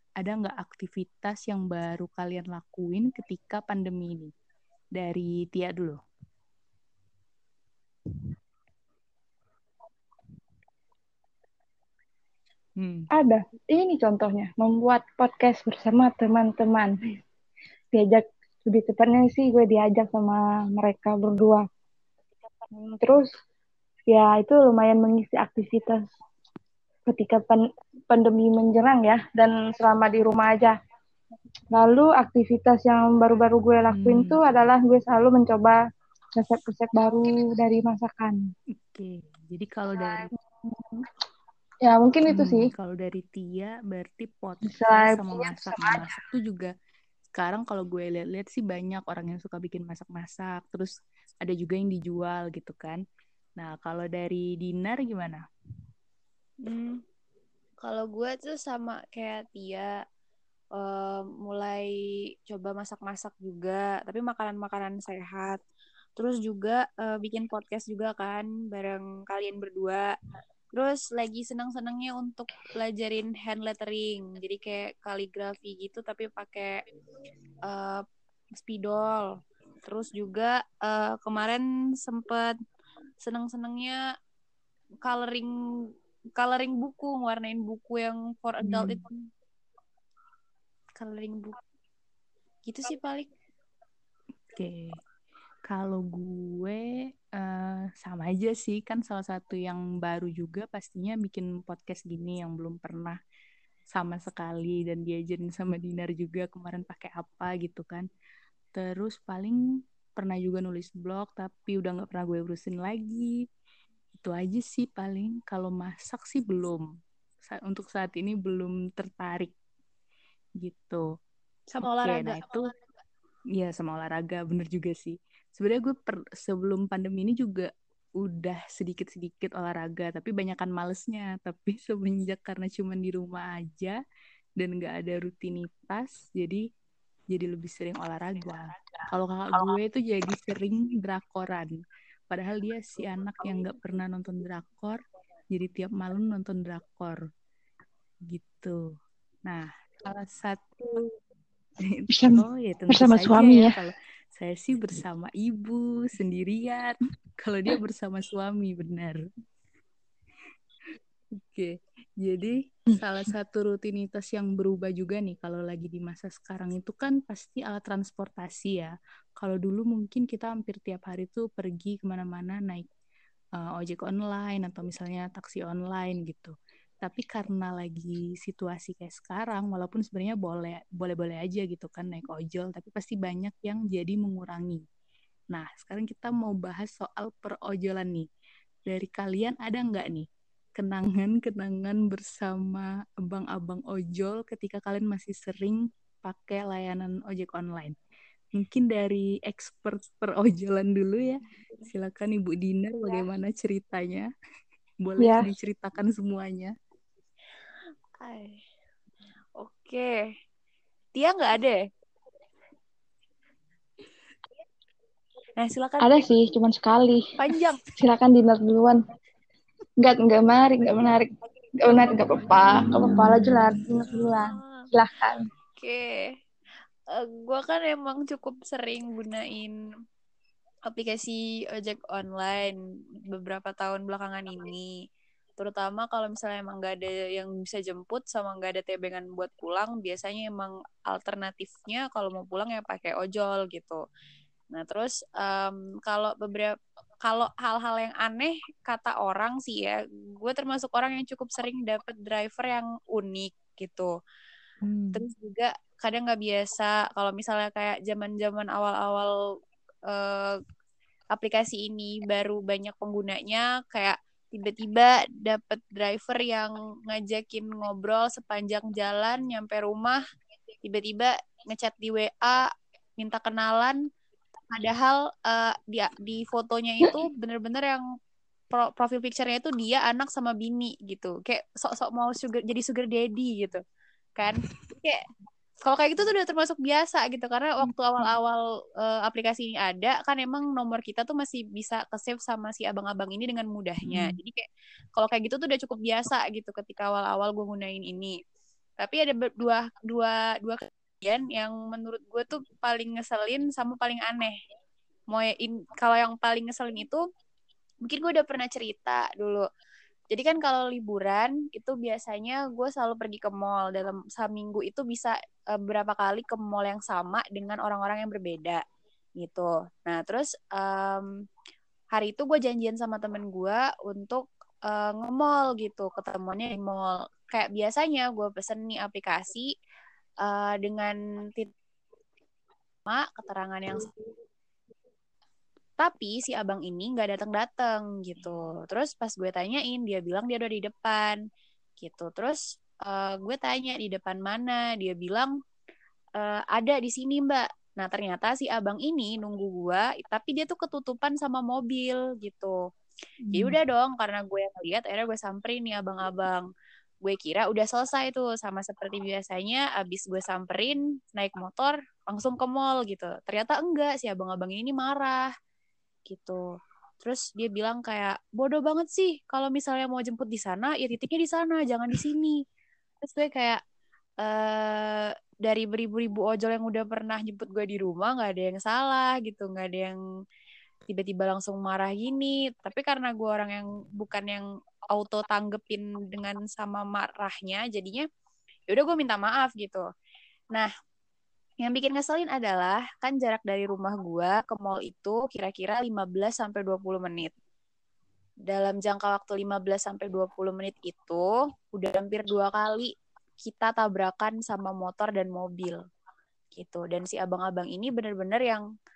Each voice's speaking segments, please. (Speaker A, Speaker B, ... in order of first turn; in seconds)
Speaker A: 0.2-4.3, 5.0-6.0, 12.8-13.1, 33.9-34.4, 38.8-40.3, 42.3-46.7, 47.3-53.0, 53.6-55.4, 88.6-89.0, 94.5-95.0, 95.7-96.8, 97.3-103.2, 103.9-108.0, 108.7-109.6, 110.2-113.4, 114.1-116.8, 117.4-119.5, 120.6-121.0, 122.0-122.7, 123.5-127.7, 128.2-134.0, 134.6-136.6, 137.3-141.7, 142.3-147.2, 148.3-148.8, 149.5-151.1, 151.8-159.2, 161.4-172.8, 173.6-184.8, 185.5-188.2, 188.9-197.9, 198.6-204.3, 205.0-206.7, 217.4-217.8, 254.8-255.2, 287.8-288.3, 294.0-294.3, 353.4-353.8
Speaker B: 13.1-17.2, 17.9-21.6, 22.7-23.3, 24.1-26.1, 27.1-30.7, 31.7-35.8, 36.4-38.4, 40.7-41.0, 41.8-42.7, 44.6-46.1, 152.1-153.8, 205.2-205.5, 216.0-217.2, 218.0-219.0, 220.0-225.4
Speaker C: 56.6-57.0, 57.8-60.0, 60.7-61.9, 62.5-65.6, 66.2-70.1, 70.7-76.7, 77.7-79.3, 79.8-82.5, 83.2-84.0, 85.0-85.5, 86.3-89.3, 91.0-91.6, 92.7-93.3, 121.7-122.8, 208.2-208.6, 209.6-210.2, 211.2-211.8, 215.6-216.2, 224.6-224.8, 225.8-226.3, 227.1-229.8, 230.8-232.8, 233.3-234.9, 235.6-244.0, 244.7-254.1, 255.1-259.3, 260.1-260.6, 261.3-270.2, 270.8-274.0, 274.7-278.0, 278.7-283.8, 284.4-285.2, 285.9-298.4, 299.0-304.6, 305.3-307.2, 308.0-309.6, 310.3-318.8, 319.4-321.3, 322.1-329.7, 330.4-331.7, 333.0-334.1, 336.0-341.4, 342.0-345.5, 346.4-352.7, 353.5-356.7, 357.2-365.5, 366.3-366.6, 367.2-372.6, 373.2-373.8, 374.4-380.2, 381.1-388.2, 388.9-390.0, 391.8-397.5, 398.7-406.0, 406.7-408.8